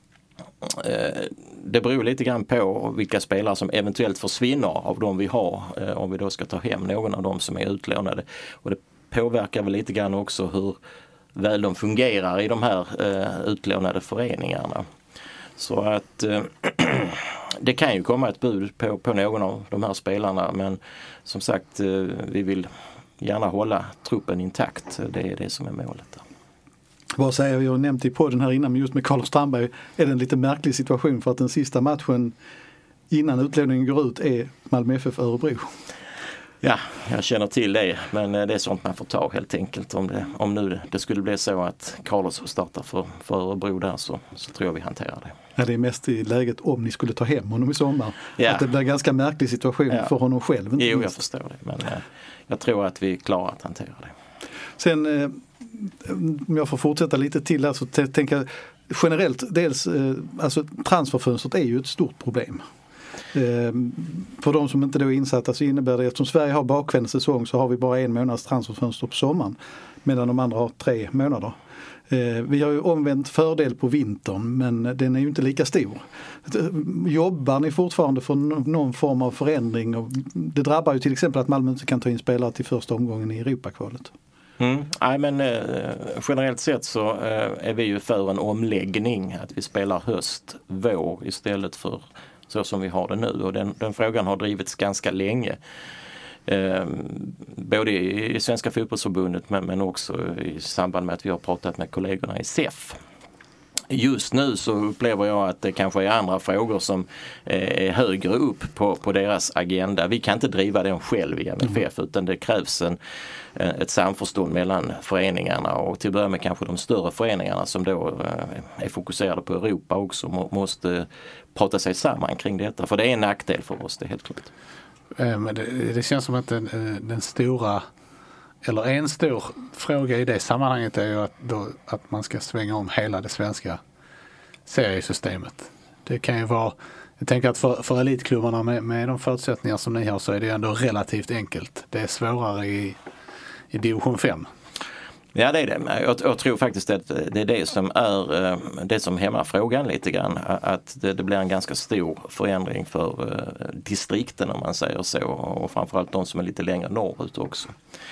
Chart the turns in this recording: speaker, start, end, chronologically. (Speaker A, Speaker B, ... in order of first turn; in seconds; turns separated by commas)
Speaker A: 0.6-10.8, Speaker A: 11.3-14.9, Speaker A: 15.6-22.7, Speaker A: 23.2-26.2, Speaker B: 27.2-32.3, Speaker B: 33.1-35.7, Speaker A: 36.6-45.3, Speaker B: 45.5-51.1, Speaker A: 48.4-48.6, Speaker A: 50.8-54.1, Speaker B: 54.8-62.6, Speaker B: 63.3-71.5, Speaker B: 72.1-84.1, Speaker A: 84.6-95.6, Speaker A: 96.5-103.0, Speaker A: 103.9-113.0, Speaker A: 113.5-124.5, Speaker C: 125.1-127.8, Speaker C: 128.6-133.8, Speaker C: 134.7-143.0, Speaker C: 143.7-144.5, Speaker A: 145.3-157.8